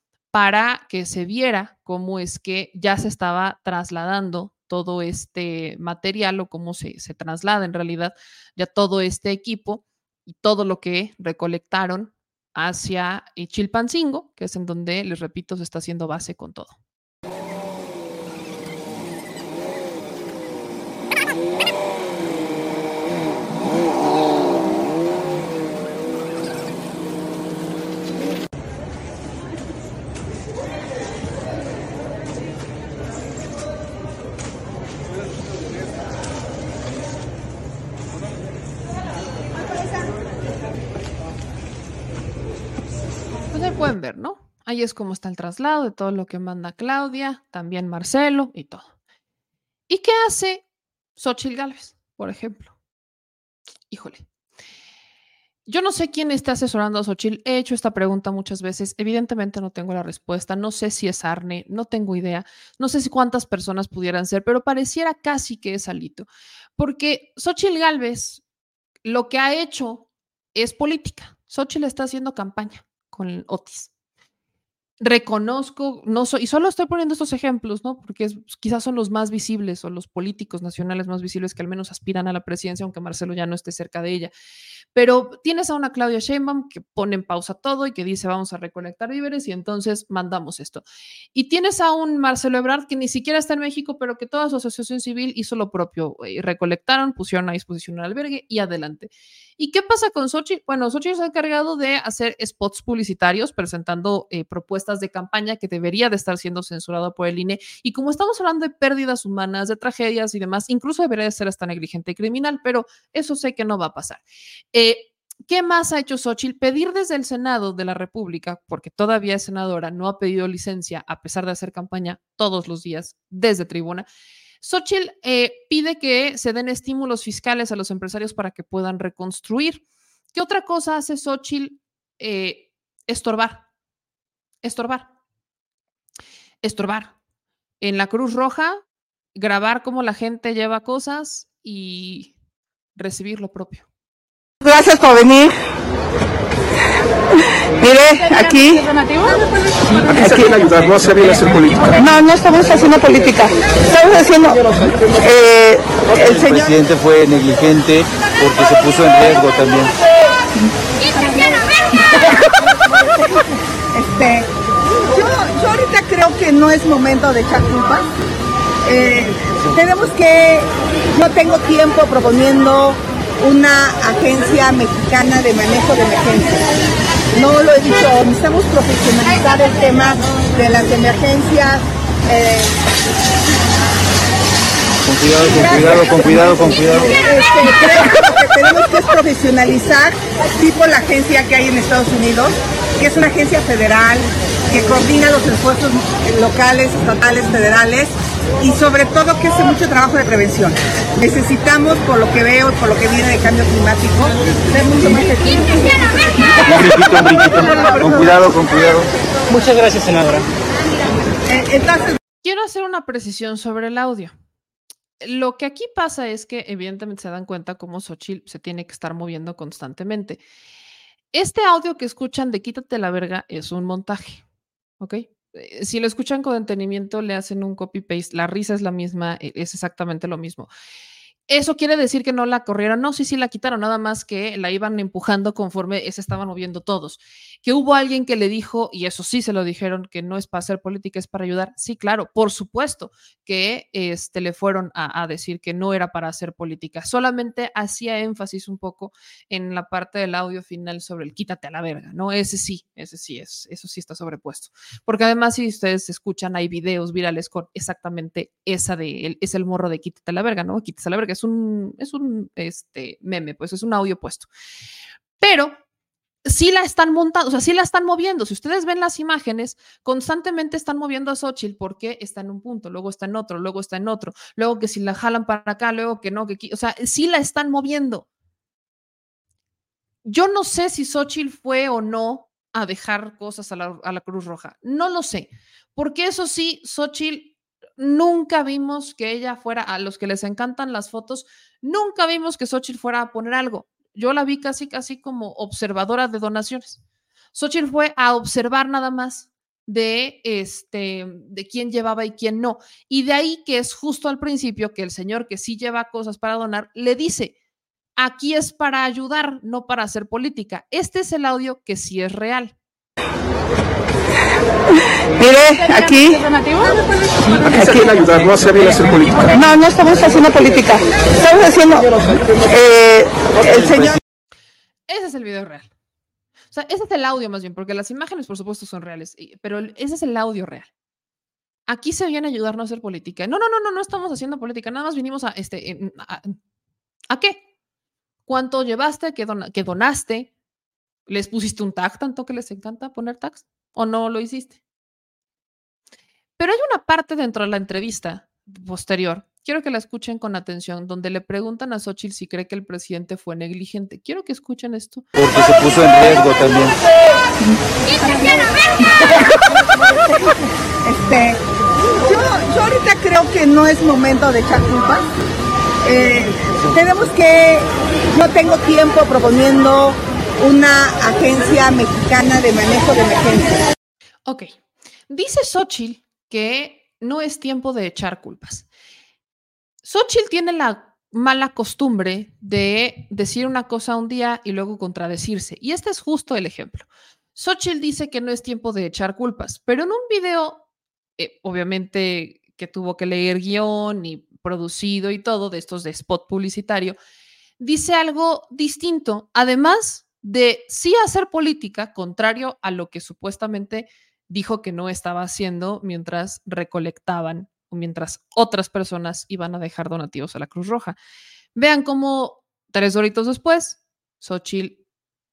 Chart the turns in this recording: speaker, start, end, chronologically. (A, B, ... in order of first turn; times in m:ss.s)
0:00.3-0:16.8 A
0:43.5-0:48.8 A
0:49.9-0:50.6 A
0:51.2-0:52.7 A
0:53.9-0:54.2 A
0:55.7-1:08.4 A
1:09.0-1:13.9 A
1:15.0-1:24.3 A
1:24.9-1:30.8 A
1:31.3-1:54.2 A
1:54.7-2:04.0 A
2:04.6-2:09.8 A
2:10.3-2:13.6 A
2:14.6-2:15.1 A
2:16.6-2:17.1 A
2:17.8-2:18.8 A
2:19.4-2:22.3 A
2:23.0-2:23.8 A
2:24.6-2:25.5 B
2:27.8-2:28.9 B
2:30.1-2:31.9 C
2:32.0-2:36.5 B
2:36.2-2:39.9 D
2:43.9-2:44.5 E
2:45.1-2:48.1 E
2:48.8-2:56.7 E
2:57.3-3:02.8 E
3:05.1-3:07.2 D
3:05.5-3:06.5 E
3:07.1-3:26.2 E
3:26.6-3:30.4 D
3:31.5-3:32.1 E
3:32.4-3:34.3 A
3:35.2-3:40.4 A
3:41.3-3:44.4 A
3:45.0-3:50.7 A
3:51.5-4:24.5 A
4:25.4-4:25.8 A
4:26.4-4:38.2 A
4:40.2-4:57.0 A
4:57.5-5:07.5 A
5:08.2-5:12.7 A
5:15.4-5:16.4 B
5:17.7-5:19.5 C
5:19.5-5:24.2 B
5:25.1-5:25.9 A
5:26.7-5:30.9 A
5:31.9-5:36.6 A
5:37.3-5:37.6 A
5:38.5-5:40.5 A
5:41.3-5:44.8 A
5:46.6-5:55.2 A
5:55.4-5:57.0 D
6:01.0-6:01.6 E
6:02.2-6:05.2 E
6:06.0-6:13.8 E
6:14.4-6:14.7 A
6:15.3-6:18.9 A
6:20.0-6:30.8 A
6:31.4-6:37.2 A
6:37.8-6:51.2 A
6:51.8-6:55.0 A